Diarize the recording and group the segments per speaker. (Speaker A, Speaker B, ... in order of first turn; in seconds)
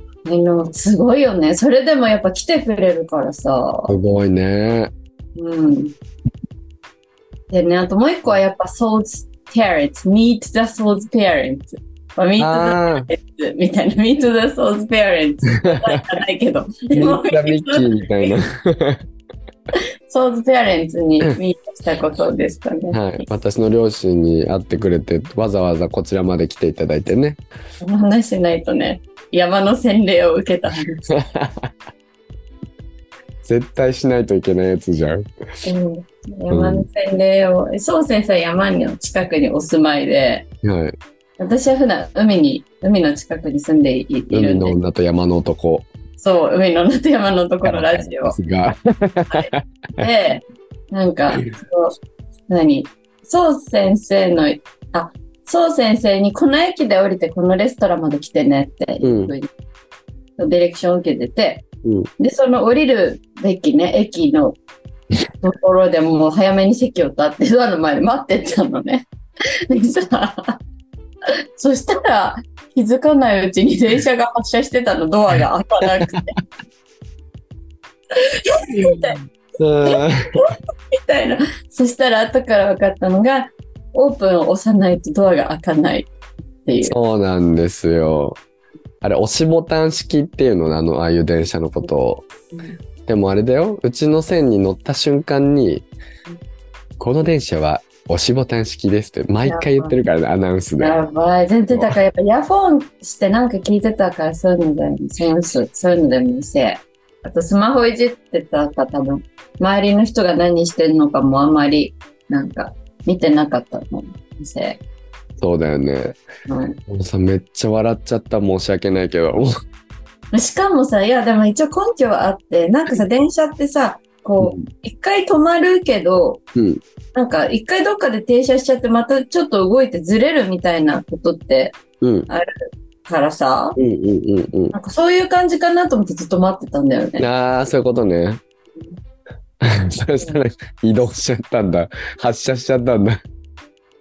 Speaker A: 0.2-4.0, 5.4-6.0, 7.5-18.4, 19.7-23.3, 27.8-31.1, 35.6-40.5, 41.4-44.8, 46.2-48.4, 49.3-52.0, 52.5-59.5, 60.4-61.6, 62.2-64.6, 65.4-69.1, 69.7-70.6, 71.6-76.4, 78.2-79.2, 79.8-86.1, 86.7-87.0, 92.5-92.8, 99.5-100.0, 100.8-114.8, 116.5-116.8, 120.3-126.4, 127.1-132.5, 133.1-133.8, 134.7-137.3
Speaker B: 3.9-4.9, 12.4-13.1, 15.6-16.0, 16.9-19.0, 22.9-27.4, 31.1-31.7, 33.4-35.2, 36.5-36.9, 40.6-41.0, 44.3-45.9, 47.6-50.1, 59.0-59.3, 61.8-62.1, 78.7-80.4, 86.8-88.4, 89.0-92.3, 93.1-95.9, 97.0-101.0, 115.4-116.2, 116.9-119.5, 124.4-124.7, 126.5-126.8, 132.0-132.3, 133.8-134.8, 137.2-138.4, 139.6-143.2